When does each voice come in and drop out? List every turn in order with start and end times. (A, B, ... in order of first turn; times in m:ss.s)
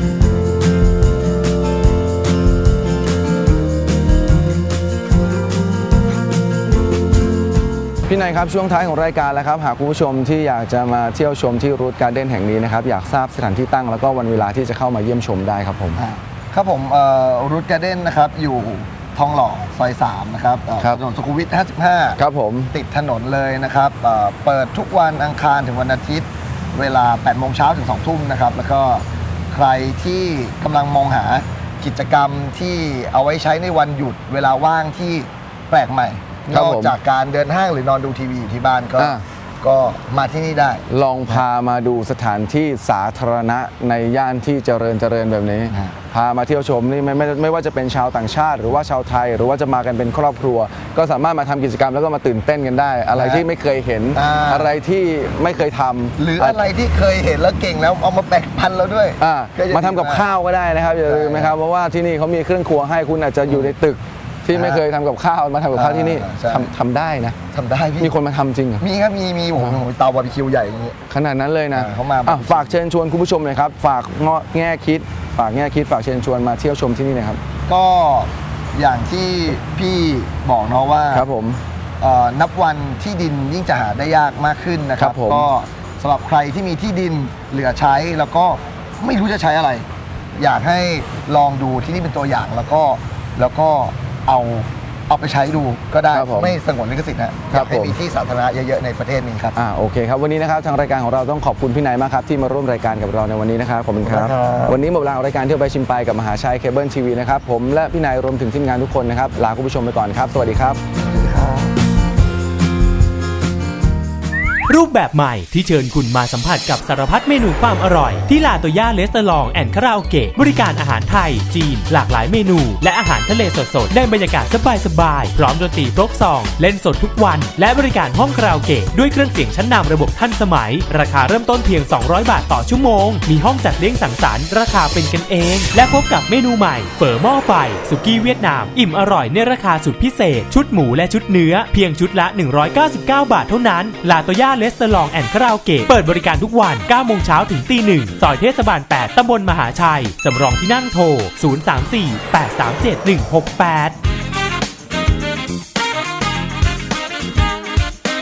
0:08.1-0:16.0 A
0:16.0-0:22.2 B
0:22.2-0:22.7 A
0:22.7-0:41.4 B
0:36.5-0:36.9 A
0:39.0-0:39.2 A
0:40.9-0:56.6 A
0:45.7-0:46.0 B
0:53.1-0:53.5 B
0:54.1-0:54.8 B
0:56.2-1:00.3 B
0:59.2-1:07.4 A
1:01.0-1:01.6 B
1:03.5-1:03.8 B
1:04.5-1:04.8 B
1:05.7-1:06.7 B
1:07.5-1:08.2 B
1:08.0-1:08.8 A
1:08.8-1:11.0 B
1:11.1-1:17.4 A
1:11.7-1:12.8 B
1:17.7-1:21.3 B
1:21.1-1:21.6 A
1:22.0-1:29.9 B
1:25.0-1:25.5 A
1:30.4-1:39.6 B
1:36.1-1:36.6 A
1:37.5-1:38.0 A
1:39.6-1:50.8 A
1:44.0-1:44.8 B
1:51.0-1:51.8 B
1:54.7-2:34.0 C